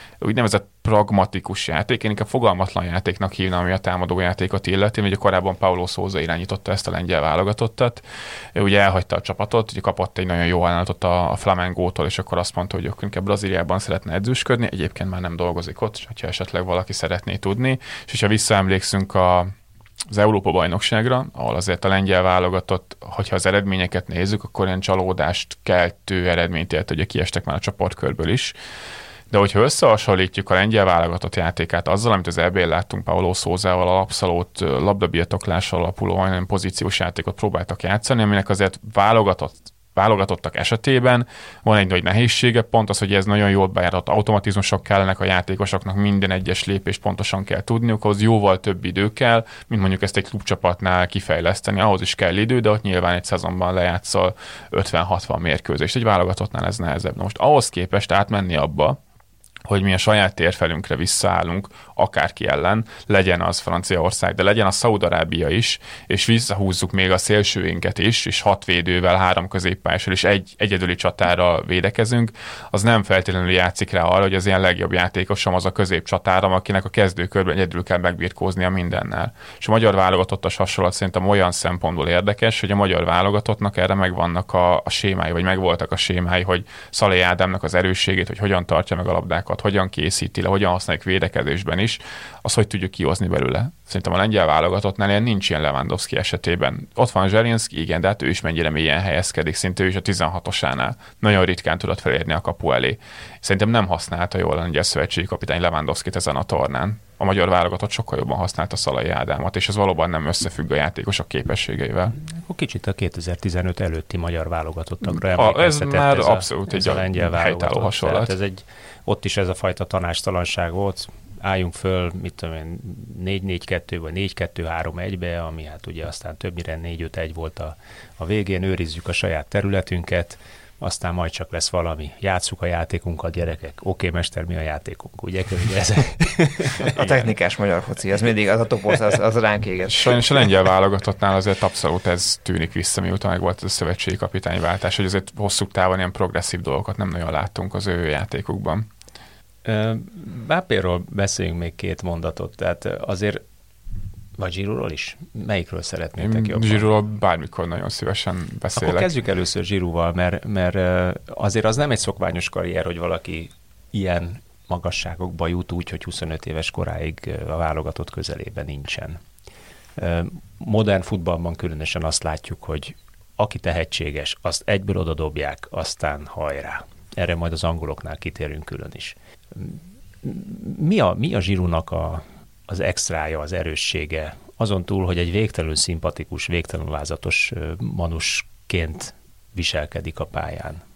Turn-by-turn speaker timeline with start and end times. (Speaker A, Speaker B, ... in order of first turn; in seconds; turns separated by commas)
Speaker A: 0.2-8.0, Speaker A: 8.5-19.5, Speaker A: 20.1-28.5, Speaker A: 29.3-59.0, Speaker A: 59.6-112.2, Speaker B: 112.3-136.9, Speaker A: 115.1-118.3, Speaker C: 136.9-140.4, Speaker A: 139.9-148.9, Speaker B: 149.6-153.4, Speaker B: 154.4-156.9, Speaker A: 156.2-159.1, Speaker B: 158.8-169.2, Speaker B: 170.0-190.8